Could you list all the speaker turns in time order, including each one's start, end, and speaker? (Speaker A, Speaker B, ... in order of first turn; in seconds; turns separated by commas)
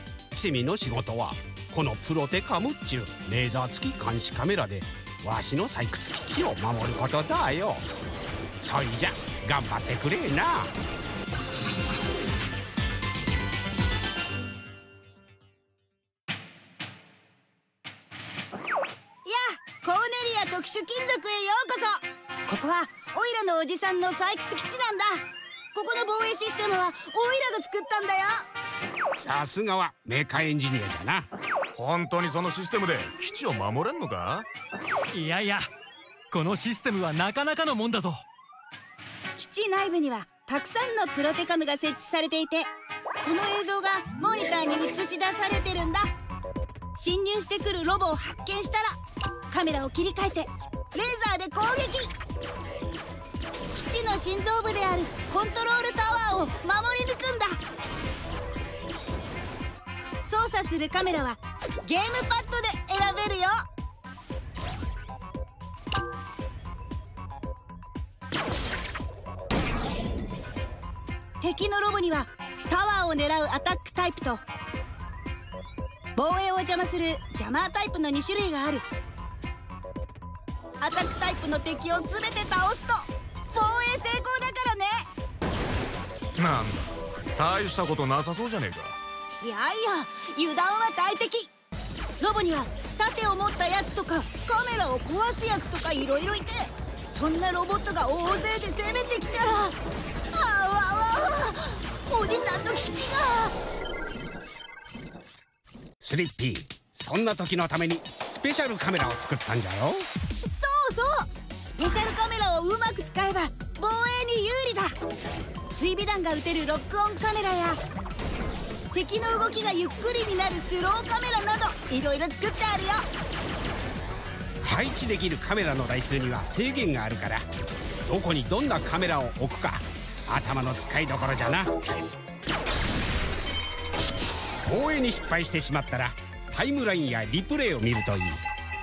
Speaker A: 0.3-7.8, Speaker A: 8.6-10.7, Speaker B: 19.2-28.4, Speaker A: 29.2-31.3, Speaker C: 31.8-34.5, Speaker D: 35.1-35.7, Speaker D: 36.3-38.2, Speaker B: 39.4-42.7, Speaker B: 43.2-46.1, Speaker B: 47.0-49.0, Speaker B: 49.5-52.1, Speaker B: 53.7-57.6, Speaker B: 60.2-63.6, Speaker B: 71.4-74.4, Speaker B: 76.2-78.8, Speaker B: 80.8-85.1, Speaker C: 86.4-89.0, Speaker B: 89.4-91.5, Speaker B: 92.2-99.7, Speaker B: 100.3-103.5, Speaker A: 106.0-110.1, Speaker B: 110.4-115.0, Speaker B: 115.7-117.8, Speaker B: 118.9-123.1, Speaker A: 124.6-127.4, Speaker A: 128.1-132.0, Speaker A: 134.7-138.4